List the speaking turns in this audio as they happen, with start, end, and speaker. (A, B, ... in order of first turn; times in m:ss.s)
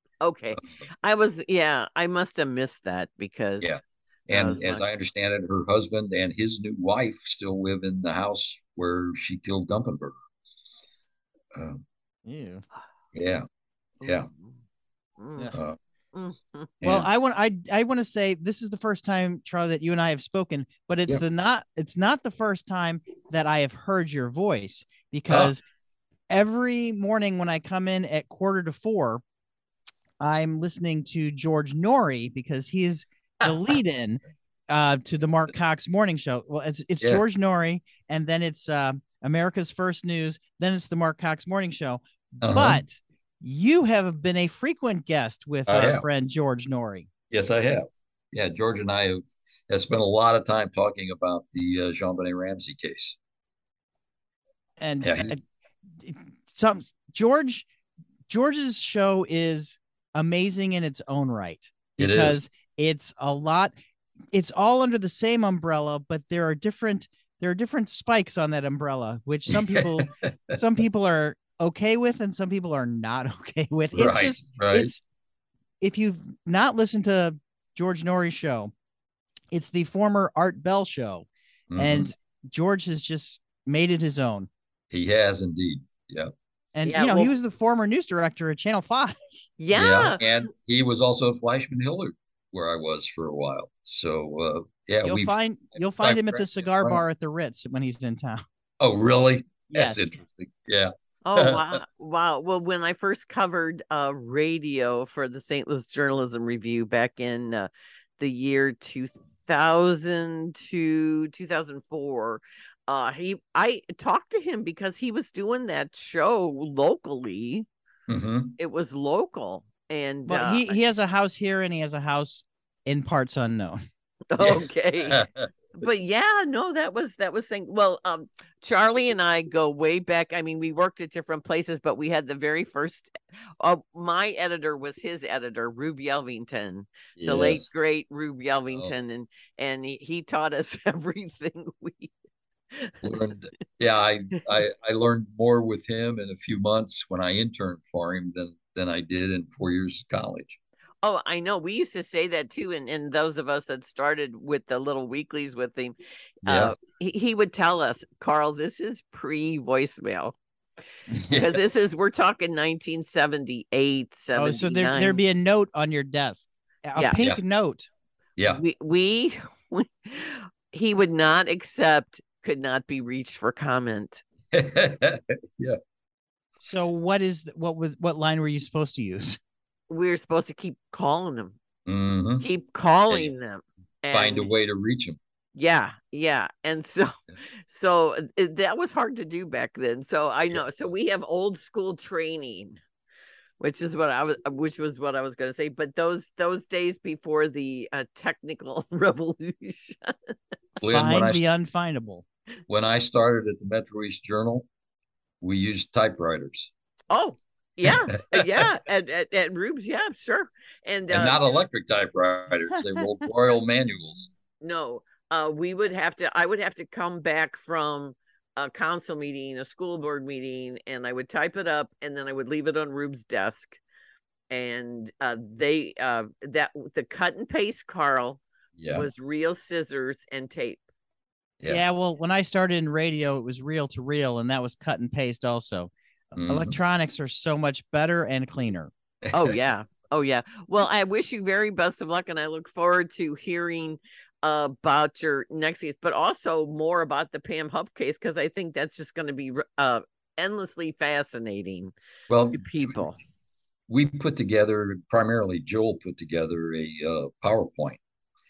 0:00.2-0:03.8 A
0:03.6-0:10.1 B
0:04.3-0:04.8 A
0:11.5-0:11.8 B
0:12.3-0:12.6 C
0:13.1-0:13.5 B
0:14.0-0:14.3 B
0:14.1-0:14.5 A
0:15.2-0:15.6 A
0:16.1-0:16.7 A
0:16.8-0:17.1 B
0:16.8-0:25.6 C
0:26.3-0:29.2 C
0:30.2-0:47.1 C
0:42.4-0:42.8 B
0:45.7-0:46.1 B
0:47.3-0:53.2 B
0:54.8-0:55.4 C
0:55.0-0:55.3 B
0:56.0-0:57.7 C
0:58.3-1:03.7 C
1:02.0-1:02.4 B
1:04.3-1:15.0 C
1:09.5-1:10.6 B
1:13.9-1:14.9 B
1:15.8-1:18.7 C
1:19.5-1:24.5 C
1:21.7-1:22.1 B
1:24.9-1:26.3 B
1:26.8-1:29.2 C
1:26.9-1:27.3 A
1:29.6-1:30.2 A
1:29.7-1:37.0 B
1:35.0-1:38.4 C
1:38.8-1:41.8 B
1:39.7-1:40.1 C
1:41.2-1:57.7 A
1:58.1-1:58.5 B
1:58.6-2:00.8 A
2:00.3-2:03.8 C
2:04.3-2:05.2 A
2:04.4-2:05.5 B
2:05.8-2:22.1 A
2:17.2-2:17.7 B
2:22.7-2:23.2 A
2:23.0-2:30.6 B
2:31.0-2:40.4 A
2:36.4-2:36.8 B
2:41.3-2:41.6 B
2:41.3-2:45.2 A
2:44.4-2:47.9 C
2:48.4-2:48.6 B
2:48.6-2:54.2 A
2:54.5-2:55.8 B
2:56.6-2:59.4 C
2:59.9-3:01.6 A
3:01.9-3:02.4 B
3:02.4-3:04.5 A
3:04.1-3:05.2 B
3:05.6-3:07.1 A
3:07.7-3:12.8 A
3:13.6-3:20.4 A
3:20.8-3:21.4 B
3:20.8-3:22.2 C
3:22.7-3:24.7 B
3:25.4-3:26.7 B
3:27.1-3:31.4 A
3:27.9-3:28.7 B
3:31.1-3:34.3 B
3:34.6-3:43.8 A
3:44.5-3:48.4 A
3:48.8-3:49.1 B
3:48.9-3:50.8 A
3:51.7-3:58.9 C
3:56.4-3:56.8 B
3:59.2-3:59.6 B
3:59.3-4:11.9 A
4:12.3-4:13.0 B
4:12.5-4:13.2 A
4:13.9-4:18.0 B